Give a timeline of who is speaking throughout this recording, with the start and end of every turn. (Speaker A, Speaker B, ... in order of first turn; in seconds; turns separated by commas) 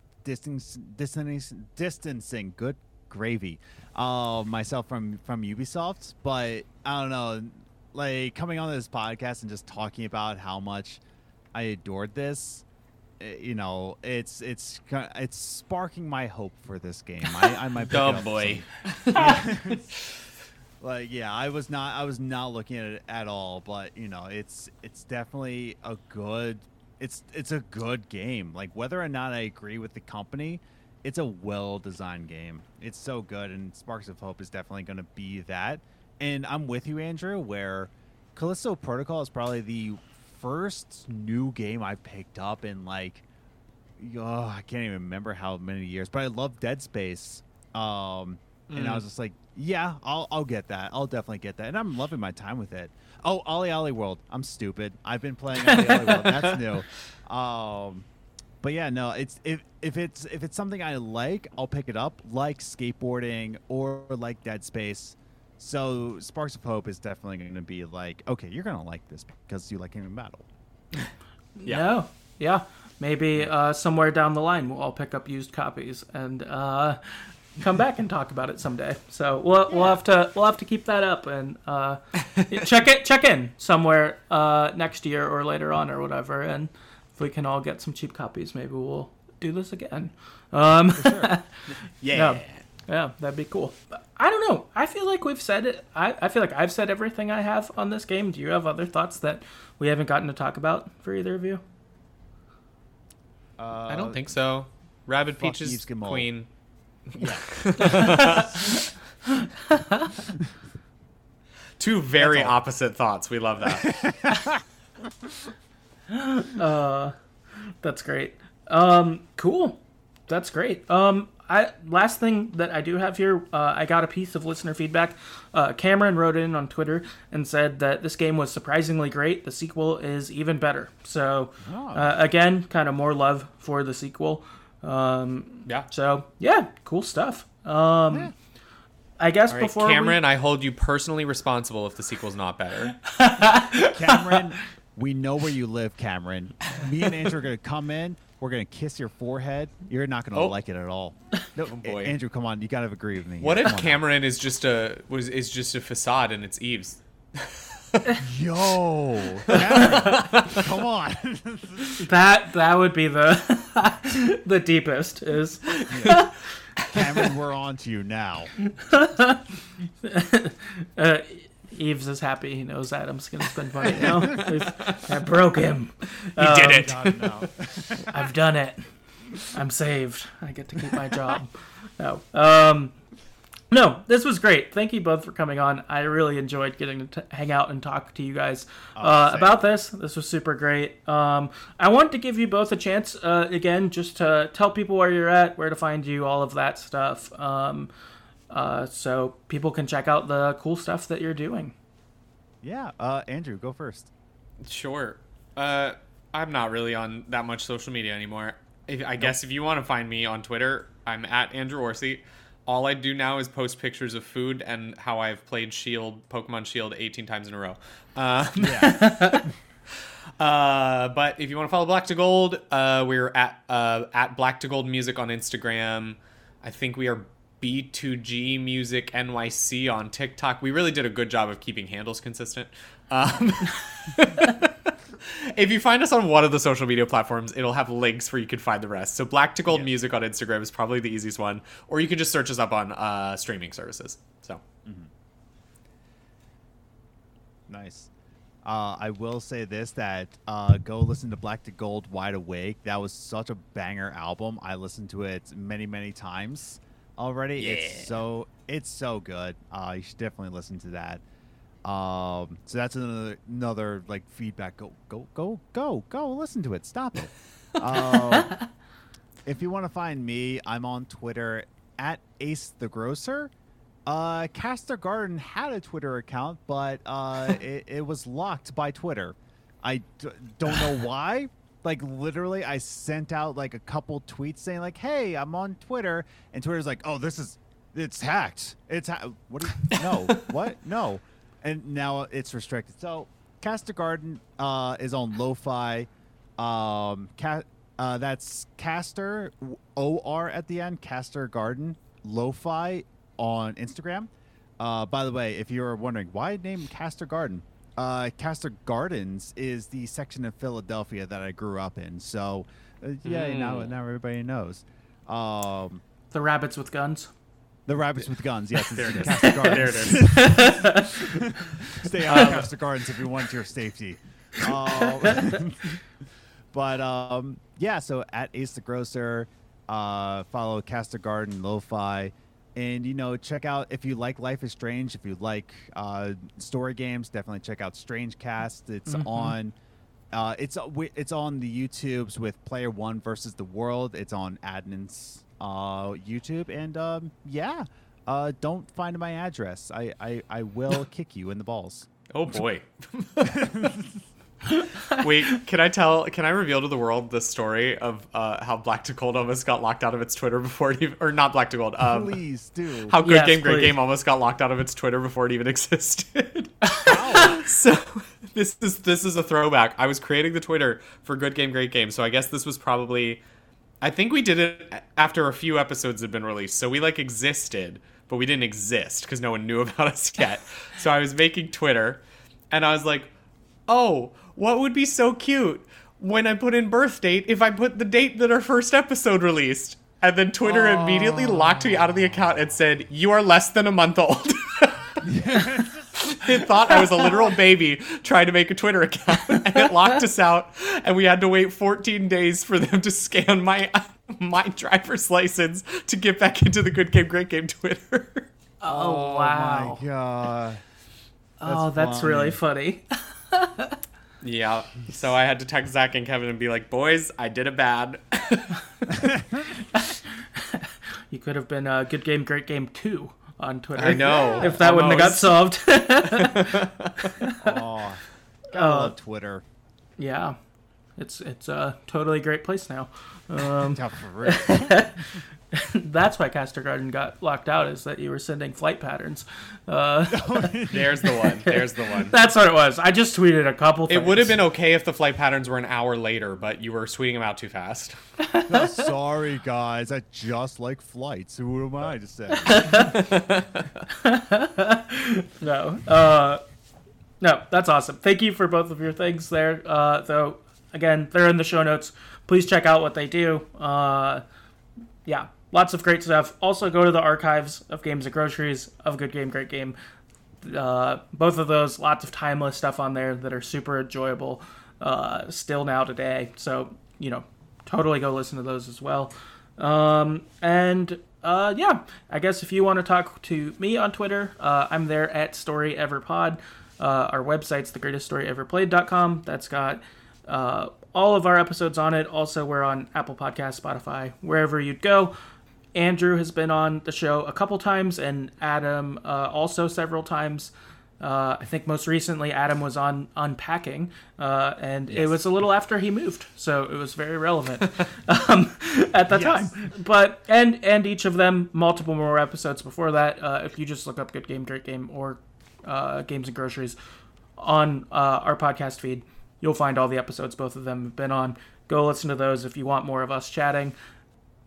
Speaker A: 0.2-11.0, Speaker A: 11.5-12.7, Speaker A: 13.2-19.9, Speaker B: 17.9-19.4, Speaker A: 20.8-43.2, Speaker A: 44.0-58.1, Speaker B: 48.7-49.0, Speaker C: 55.6-56.3, Speaker B: 56.3-56.6, Speaker A: 58.6-70.5, Speaker C: 71.6-91.6, Speaker A: 79.7-80.0, Speaker A: 91.0-91.3, Speaker B: 92.0-92.6, Speaker C: 92.1-101.6, Speaker A: 103.6-104.2, Speaker B: 103.9-106.5, Speaker A: 105.4-106.3, Speaker B: 107.1-108.9, Speaker A: 107.2-108.8, Speaker C: 107.8-108.7, Speaker C: 109.3-110.3, Speaker B: 111.8-114.0, Speaker A: 112.2-112.6, Speaker A: 113.7-114.6, Speaker C: 116.1-117.2, Speaker C: 117.8-138.3, Speaker A: 131.6-132.2, Speaker C: 139.2-140.2, Speaker B: 139.5-143.0, Speaker C: 143.0-144.5, Speaker A: 143.9-154.0, Speaker B: 151.7-152.2, Speaker B: 153.4-158.0, Speaker A: 158.2-162.1, Speaker B: 159.5-160.7, Speaker C: 161.9-166.3, Speaker B: 165.8-166.2, Speaker A: 165.9-166.3, Speaker B: 166.8-167.1, Speaker A: 166.9-168.5, Speaker C: 168.6-169.4, Speaker C: 170.0-177.0, Speaker A: 173.8-174.5, Speaker B: 173.9-175.0, Speaker B: 176.4-177.3, Speaker A: 176.4-178.3, Speaker C: 178.1-178.8, Speaker C: 179.5-182.9, Speaker C: 183.7-197.9, Speaker A: 189.0-189.7, Speaker C: 198.5-201.7, Speaker A: 202.6-204.1, Speaker B: 204.6-219.4, Speaker A: 218.6-219.5, Speaker C: 218.8-219.4, Speaker B: 220.4-244.6, Speaker A: 244.8-245.1, Speaker A: 247.7-248.1, Speaker A: 248.7-261.2, Speaker B: 257.6-258.2, Speaker A: 261.9-268.6, Speaker A: 269.4-273.5, Speaker A: 274.1-316.0, Speaker B: 313.2-313.9, Speaker C: 316.3-317.3, Speaker A: 317.9-326.1, Speaker B: 318.9-320.4, Speaker C: 319.4-321.3, Speaker B: 322.2-322.7, Speaker C: 322.3-322.6, Speaker C: 325.3-325.6, Speaker A: 326.7-339.8, Speaker C: 339.1-339.6, Speaker A: 340.3-352.1, Speaker B: 352.3-353.9, Speaker A: 353.4-354.1, Speaker C: 354.7-355.2, Speaker B: 355.1-362.4, Speaker A: 362.0-363.1, Speaker B: 363.1-373.4, Speaker C: 363.2-364.0, Speaker C: 366.9-367.6, Speaker A: 367.0-367.6, Speaker B: 374.0-383.3, Speaker B: 383.9-395.6, Speaker A: 390.6-392.4, Speaker A: 395.2-397.3, Speaker B: 396.1-408.5, Speaker C: 408.8-410.0, Speaker A: 408.9-410.8, Speaker C: 411.6-414.0, Speaker A: 411.6-412.6, Speaker B: 414.4-419.3, Speaker A: 419.1-419.8, Speaker C: 419.9-427.8, Speaker B: 424.0-425.7, Speaker A: 424.1-424.8, Speaker B: 426.2-427.2, Speaker A: 427.6-429.6, Speaker C: 428.7-429.1, Speaker C: 430.2-430.6, Speaker C: 431.2-440.8, Speaker A: 433.8-435.1, Speaker A: 440.3-441.3, Speaker B: 440.9-442.4, Speaker C: 441.3-444.6, Speaker B: 444.1-448.2, Speaker C: 448.4-449.1, Speaker A: 448.7-453.1, Speaker C: 452.7-453.2, Speaker B: 452.9-454.0, Speaker C: 454.1-456.6, Speaker C: 457.4-464.4, Speaker C: 465.2-470.0, Speaker C: 470.6-495.4, Speaker C: 495.9-517.0, Speaker A: 509.3-509.7, Speaker C: 517.6-524.0